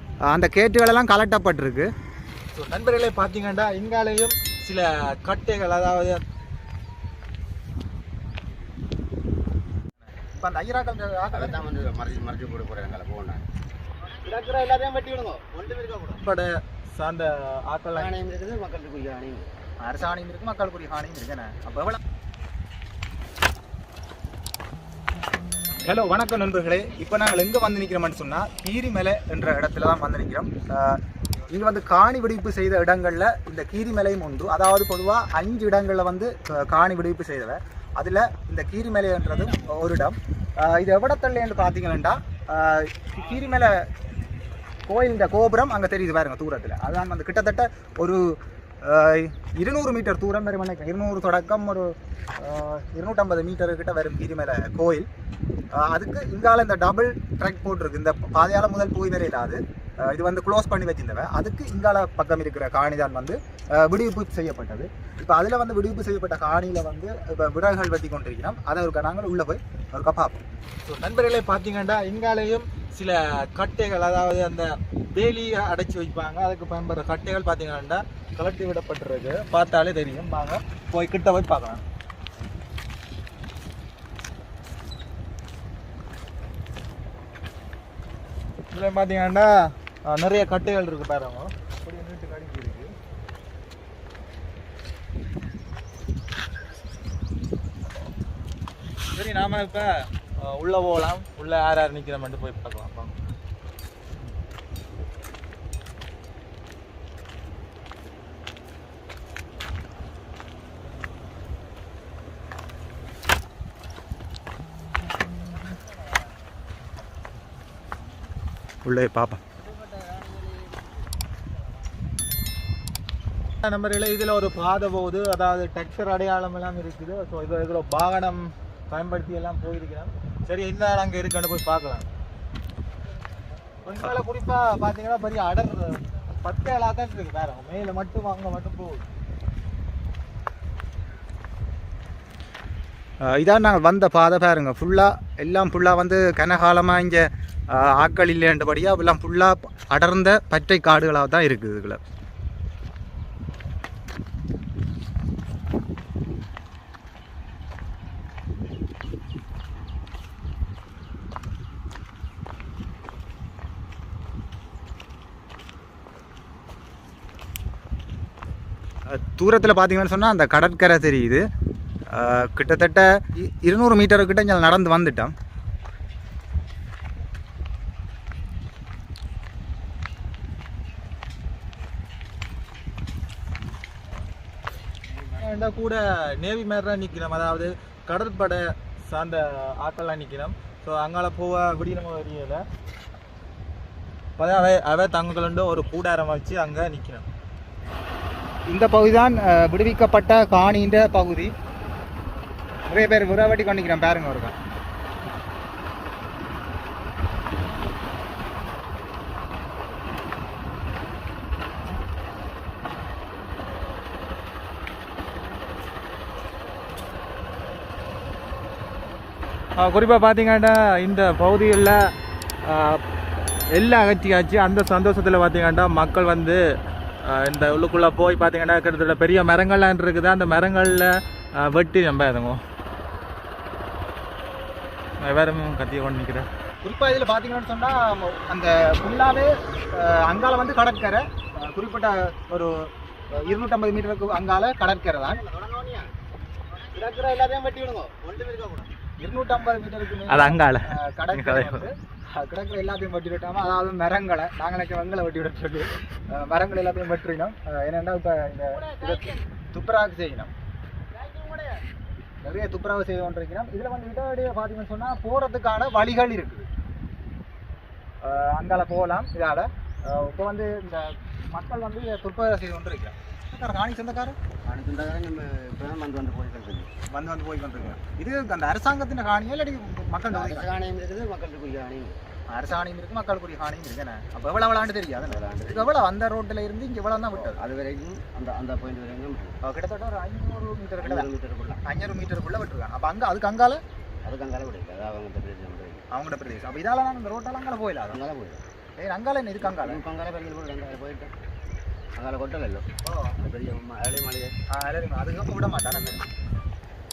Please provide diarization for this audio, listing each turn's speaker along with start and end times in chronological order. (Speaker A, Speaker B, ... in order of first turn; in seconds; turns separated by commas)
Speaker A: 0.3-1.9, Speaker B: 2.5-6.2, Speaker A: 10.2-11.7, Speaker C: 11.3-13.4, Speaker C: 14.1-16.2, Speaker B: 16.2-18.1, Speaker C: 17.9-19.5, Speaker A: 19.8-22.0, Speaker A: 25.8-43.8, Speaker A: 44.9-55.1, Speaker A: 55.7-70.4, Speaker B: 70.8-81.8, Speaker B: 88.7-92.9, Speaker B: 99.1-103.1, Speaker A: 118.8-119.4, Speaker C: 119.6-121.2, Speaker B: 123.6-132.1, Speaker B: 133.8-139.1, Speaker A: 143.2-152.0, Speaker A: 169.1-171.4, Speaker A: 172.1-175.3, Speaker B: 185.2-192.6, Speaker B: 194.4-197.2, Speaker A: 198.7-201.5, Speaker A: 202.9-204.6, Speaker B: 219.8-222.0, Speaker B: 222.6-223.0, Speaker B: 223.7-226.6, Speaker B: 227.2-232.6, Speaker B: 235.2-236.5, Speaker A: 236.8-242.7, Speaker A: 243.3-245.4, Speaker C: 245.2-246.1, Speaker C: 246.7-248.9, Speaker A: 249.2-260.5, Speaker B: 250.3-251.8, Speaker C: 258.9-259.4, Speaker C: 261.1-261.8, Speaker A: 262.4-266.7, Speaker A: 268.2-274.4, Speaker C: 274.6-276.9, Speaker A: 277.1-280.7, Speaker C: 280.3-282.2, Speaker A: 282.5-287.6, Speaker C: 285.2-285.9, Speaker C: 287.3-289.6, Speaker A: 289.6-291.3, Speaker C: 291.0-291.8, Speaker A: 291.8-293.8, Speaker C: 294.2-296.0, Speaker A: 296.1-298.2, Speaker C: 298.1-298.6, Speaker A: 299.0-300.0, Speaker C: 299.6-301.3, Speaker C: 302.1-302.9, Speaker A: 303.0-303.4, Speaker C: 303.4-304.5, Speaker A: 304.7-306.2, Speaker C: 305.8-306.2